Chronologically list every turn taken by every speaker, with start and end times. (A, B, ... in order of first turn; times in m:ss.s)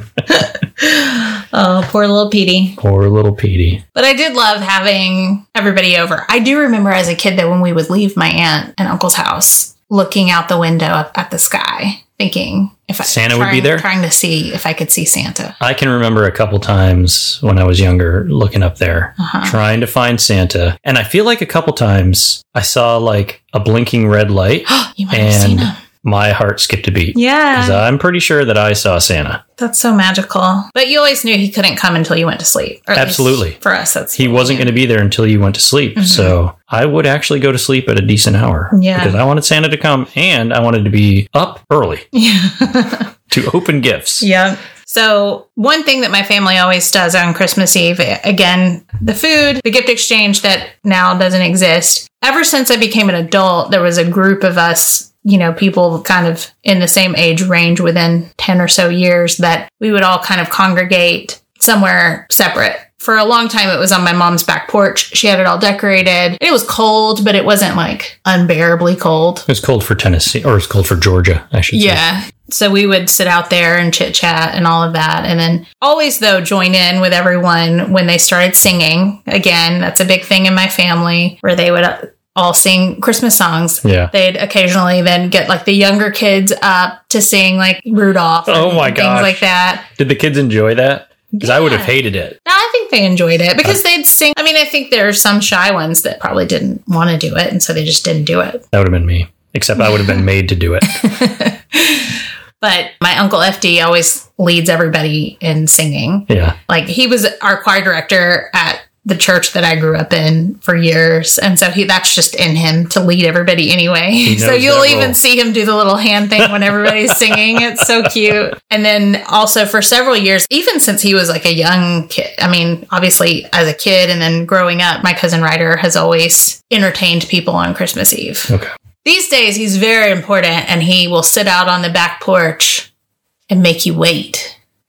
0:00.3-0:02.8 A
0:02.8-0:03.8 B
0:03.9-0:15.6 A
0:13.0-0:13.8 B
0:15.6-0:29.4 B
0:19.2-0:19.6 A
0:24.7-0:25.8 A
0:27.1-0:27.8 A
0:29.6-0:34.7 A
0:32.9-0:33.6 B
0:34.2-0:42.0 B
0:36.0-0:36.3 A
0:38.7-0:39.2 A
0:42.1-0:43.1 A
0:43.3-0:44.2 B
0:44.2-1:09.4 A
1:09.5-1:12.0 B
1:11.7-1:29.9 A
1:23.8-1:24.1 B
1:28.5-1:32.4 B
1:31.3-1:38.6 A
1:38.7-1:41.1 B
1:40.8-2:08.5 A
1:46.3-1:46.6 B
1:54.2-1:55.2 B
2:09.0-2:12.9 A
2:13.5-2:14.5 A